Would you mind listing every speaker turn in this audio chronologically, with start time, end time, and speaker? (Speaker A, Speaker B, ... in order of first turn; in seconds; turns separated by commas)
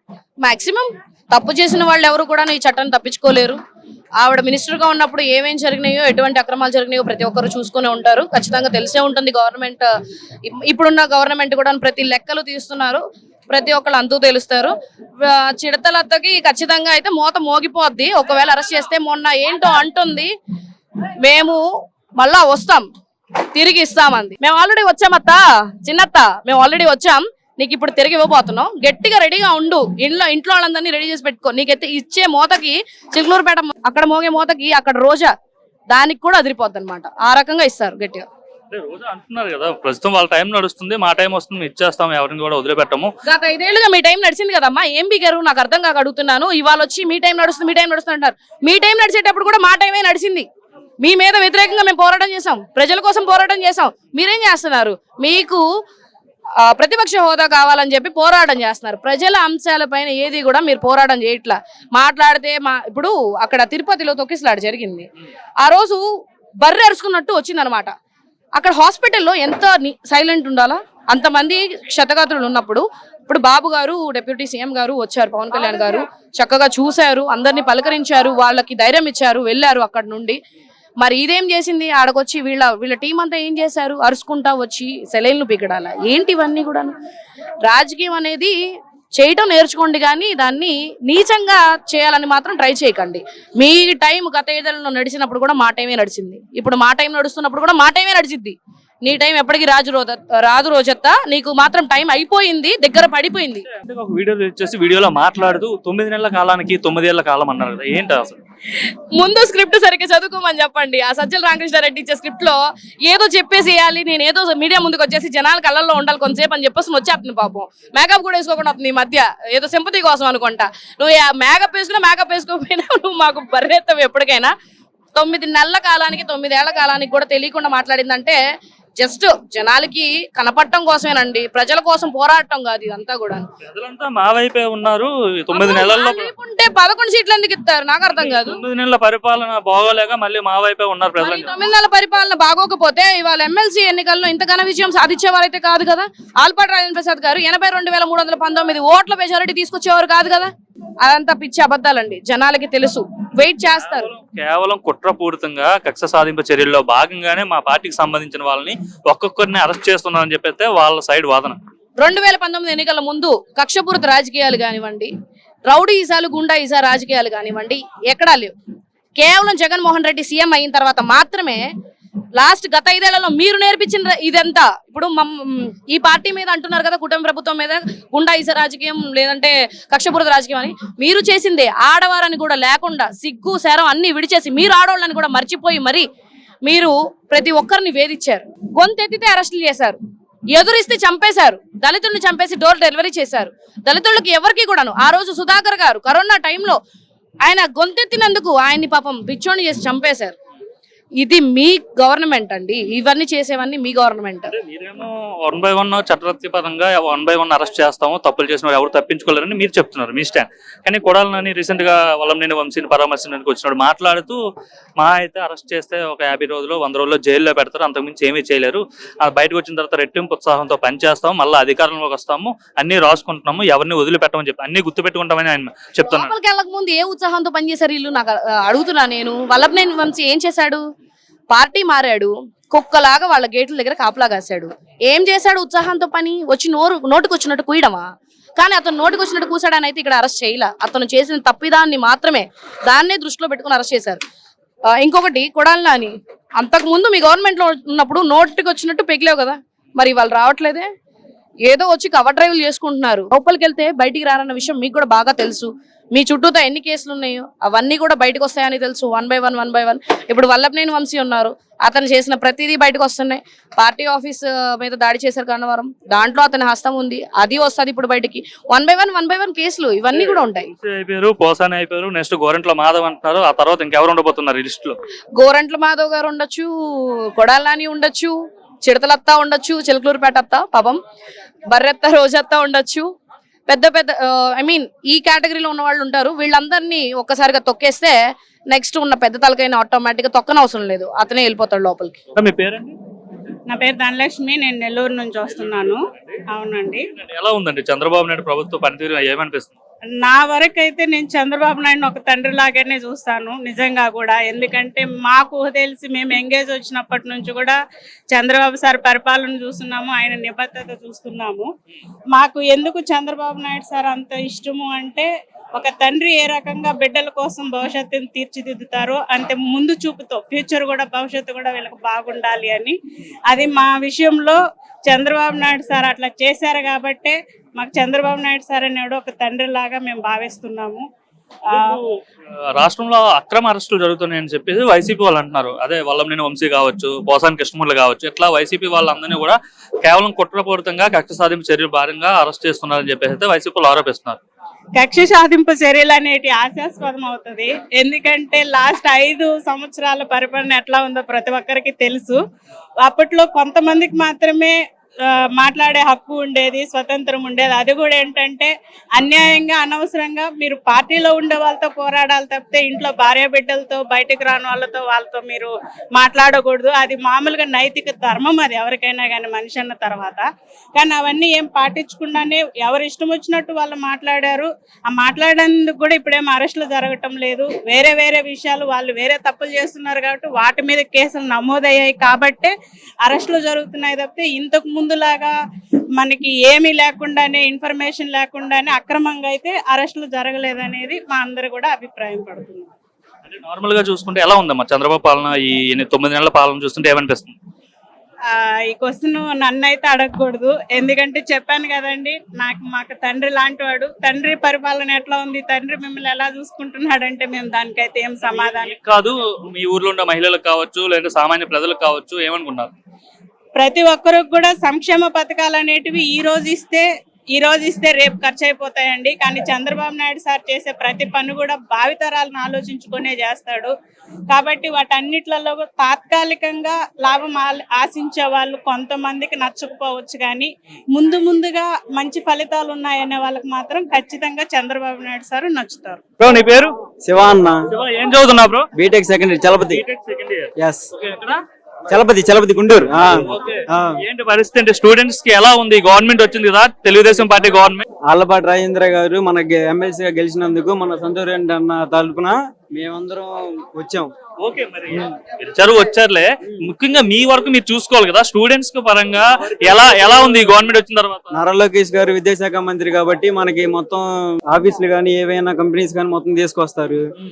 Speaker A: 0.4-3.6, Speaker A: 4.2-9.9, Speaker A: 10.4-20.3, Speaker A: 21.2-21.6, Speaker A: 22.2-22.9, Speaker A: 23.5-35.3, Speaker A: 35.9-38.3, Speaker B: 38.7-43.1, Speaker A: 43.3-50.5, Speaker A: 51.0-55.6, Speaker A: 56.6-65.1, Speaker A: 65.6-66.0, Speaker A: 66.6-67.9, Speaker A: 68.5-80.4, Speaker A: 81.0-86.9, Speaker A: 87.6-88.5, Speaker A: 89.1-103.7, Speaker B: 103.7-108.4, Speaker A: 109.1-124.5, Speaker A: 125.2-128.4, Speaker A: 129.0-133.4, Speaker B: 133.6-136.3, Speaker A: 135.5-138.6, Speaker B: 138.1-141.5, Speaker A: 141.2-150.5, Speaker A: 151.0-154.1, Speaker B: 153.8-161.6, Speaker A: 162.0-165.1, Speaker A: 165.7-168.5, Speaker A: 169.2-171.7, Speaker A: 172.3-186.1, Speaker A: 186.6-190.0, Speaker A: 190.5-196.8, Speaker A: 197.4-200.3, Speaker A: 201.2-204.5, Speaker B: 204.5-214.4, Speaker B: 215.0-226.3, Speaker A: 226.0-230.8, Speaker A: 231.5-238.0, Speaker A: 238.6-244.2, Speaker A: 244.9-250.9, Speaker A: 251.7-270.7, Speaker B: 270.1-275.0, Speaker A: 275.4-281.0, Speaker A: 281.7-283.1, Speaker A: 283.7-288.1, Speaker A: 288.7-292.2, Speaker B: 292.3-292.9, Speaker C: 293.7-296.0, Speaker B: 295.5-296.4, Speaker C: 296.5-297.0, Speaker B: 297.1-299.7, Speaker C: 300.2-307.8, Speaker C: 308.3-311.7, Speaker C: 312.3-322.9, Speaker C: 323.5-331.0, Speaker C: 331.7-332.0, Speaker B: 331.7-332.0, Speaker B: 332.7-344.4, Speaker C: 344.9-352.4, Speaker C: 353.0-354.8, Speaker C: 355.3-385.5, Speaker C: 386.1-392.9, Speaker B: 393.4-397.6, Speaker C: 398.5-408.9, Speaker B: 408.4-412.9, Speaker C: 413.7-423.9, Speaker C: 424.5-436.2, Speaker B: 436.4-436.9, Speaker D: 437.2-437.8, Speaker B: 437.9-438.9, Speaker D: 438.9-440.0, Speaker B: 439.8-441.6, Speaker D: 440.8-441.1, Speaker D: 442.1-444.2, Speaker B: 443.3-448.1, Speaker D: 448.3-454.3, Speaker B: 454.6-461.5, Speaker D: 461.5-467.2